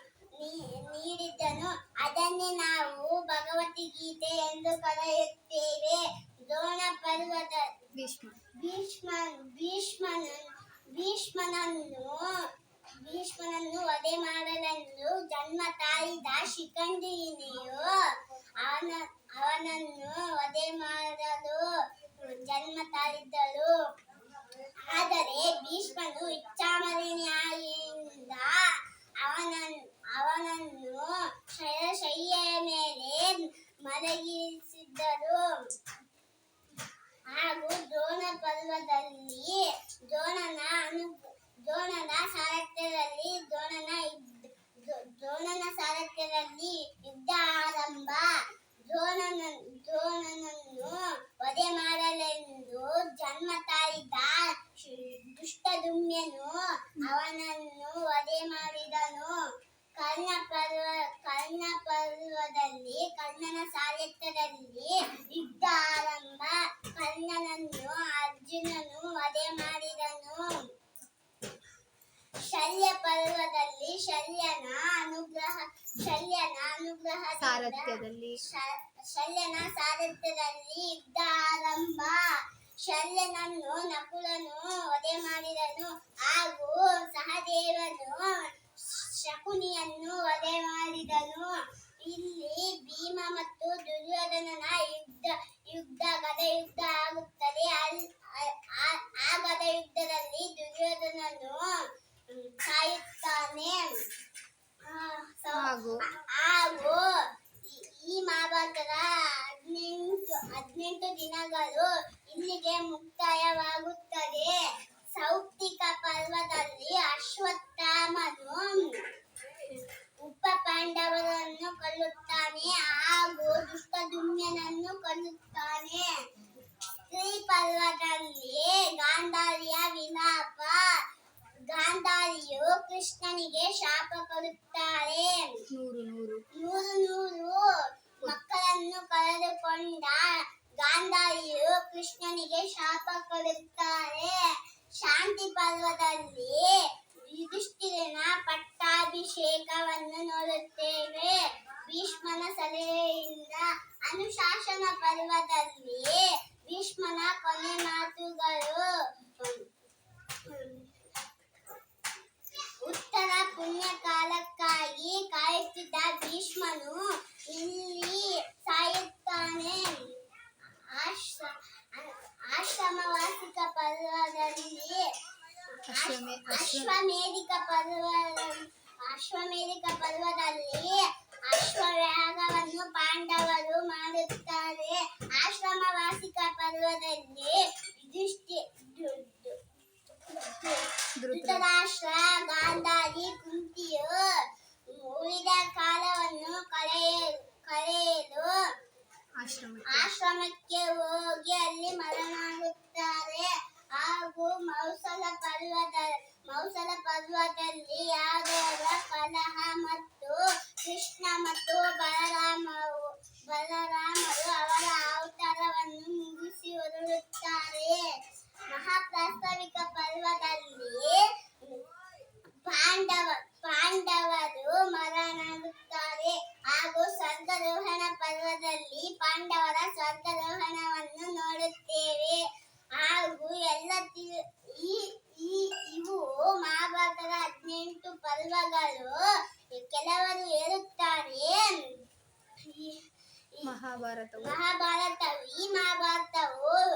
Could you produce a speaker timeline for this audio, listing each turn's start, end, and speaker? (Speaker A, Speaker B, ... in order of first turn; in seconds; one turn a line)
Speaker A: 0.4-7.7
Speaker B: 8.0-8.3
Speaker A: 8.6-12.4
Speaker A: 13.0-18.0
Speaker A: 18.6-23.7
Speaker A: 24.8-28.7
Speaker A: 29.2-35.4
Speaker A: 37.3-48.3
Speaker A: 48.9-59.3
Speaker A: 60.0-70.5
Speaker A: 72.5-82.2
Speaker B: 77.4-78.4
Speaker A: 82.8-101.7
Speaker A: 102.3-103.9
Speaker A: 104.8-107.1
Speaker B: 105.5-106.0
Speaker A: 107.6-114.5
Speaker A: 115.2-119.0
Speaker A: 119.7-126.1
Speaker A: 127.1-130.8
Speaker A: 131.7-135.6
Speaker B: 135.7-136.4
Speaker A: 136.5-137.7
Speaker A: 138.2-140.3
Speaker A: 140.8-144.3
Speaker A: 145.0-159.7
Speaker A: 160.5-160.9
Speaker A: 162.8-170.0
Speaker A: 170.9-175.1
Speaker B: 175.9-176.9
Speaker A: 175.9-189.6
Speaker A: 190.3-194.4
Speaker B: 191.2-191.6
Speaker A: 194.9-198.5
Speaker B: 199.4-200.1
Speaker A: 199.8-218.1
Speaker A: 218.7-221.8
Speaker A: 222.6-232.4
Speaker A: 232.9-239.2
Speaker A: 239.7-241.8
Speaker A: 242.6-243.0
Speaker B: 243.6-244.6
Speaker A: 244.4-246.8